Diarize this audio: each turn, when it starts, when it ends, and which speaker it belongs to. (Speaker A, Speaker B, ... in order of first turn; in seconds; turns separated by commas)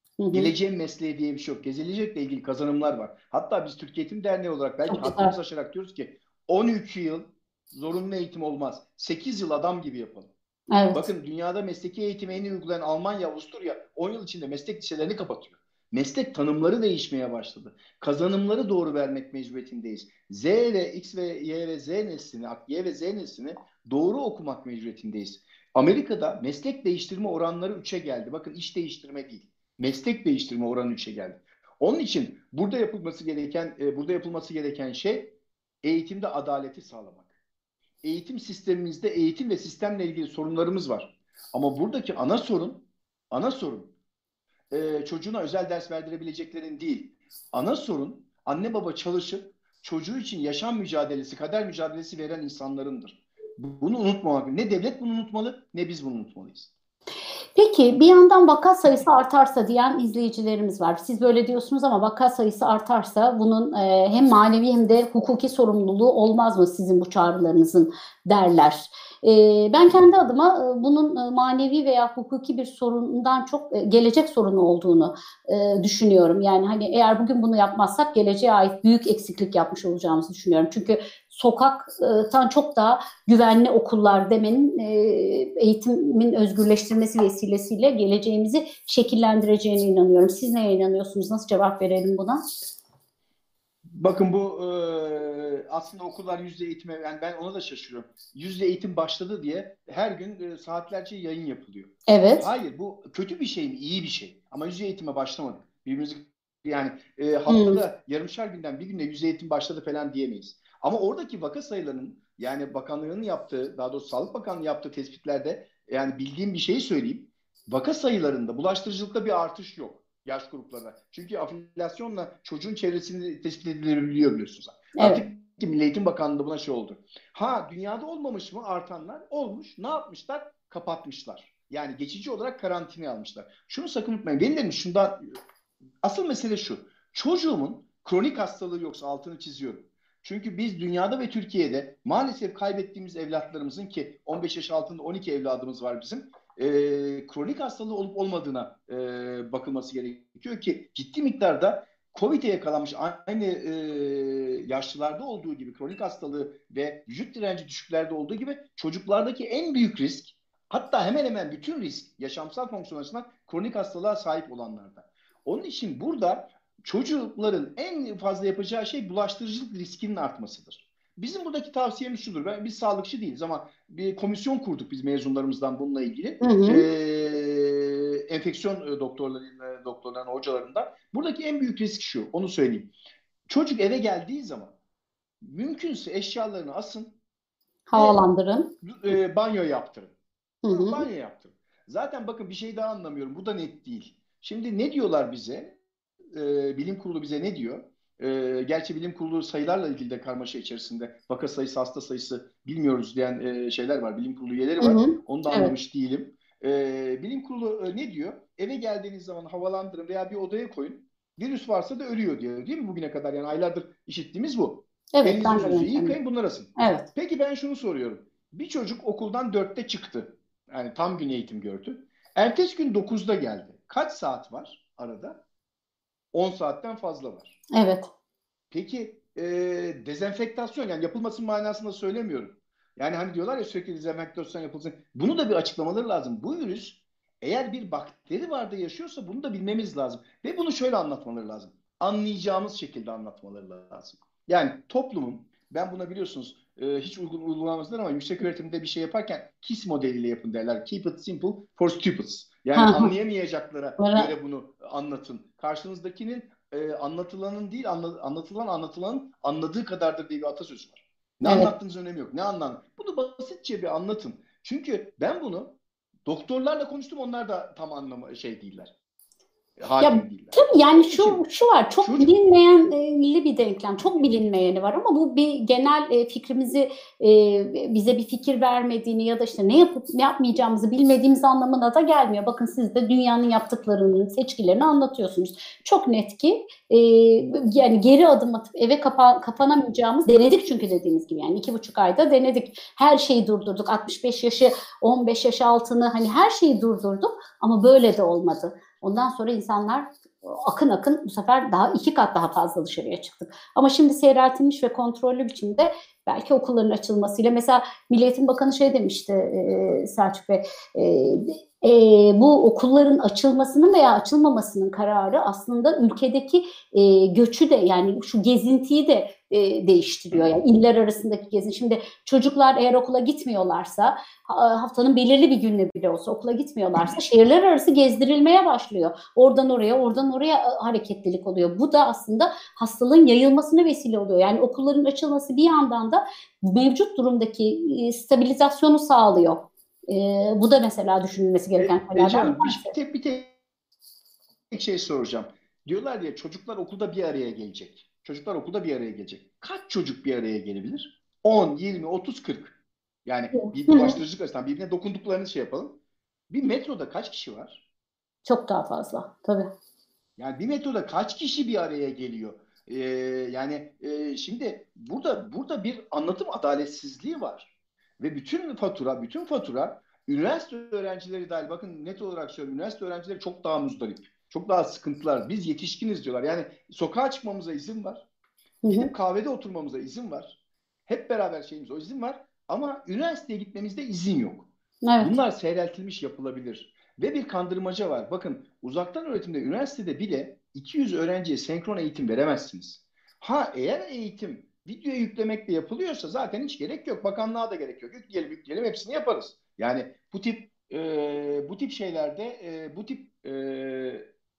Speaker A: 0.2-0.5, Speaker B: 0.3-10.3, Speaker A: 4.9-5.3, Speaker A: 10.7-11.0, Speaker B: 10.9-35.2, Speaker B: 35.8-37.3, Speaker B: 38.0-43.9, Speaker B: 44.7-56.7, Speaker A: 57.5-92.4, Speaker B: 93.9-135.1, Speaker A: 102.1-102.5, Speaker A: 107.5-107.8, Speaker A: 125.0-125.2, Speaker B: 136.0-182.9, Speaker A: 176.4-176.8, Speaker B: 183.5-184.7, Speaker B: 185.4-187.1, Speaker A: 187.9-188.7, Speaker B: 188.8-190.1, Speaker A: 190.6-191.0, Speaker B: 190.7-195.7, Speaker B: 196.3-225.3, Speaker A: 204.8-205.7, Speaker A: 215.1-216.1, Speaker A: 216.8-217.0, Speaker B: 226.3-227.5, Speaker A: 227.7-228.1, Speaker B: 228.7-265.7, Speaker A: 252.7-253.1, Speaker A: 254.0-254.3, Speaker A: 261.4-261.7, Speaker B: 266.2-268.9, Speaker B: 269.8-271.4, Speaker A: 270.0-342.9, Speaker B: 272.0-272.3, Speaker B: 341.8-343.5, Speaker B: 344.7-352.7, Speaker B: 353.2-355.9, Speaker A: 353.5-354.2, Speaker B: 356.5-357.8, Speaker A: 358.4-359.7, Speaker B: 360.4-378.2, Speaker A: 378.8-379.1, Speaker B: 378.9-384.7, Speaker A: 385.0-385.3, Speaker B: 385.2-404.2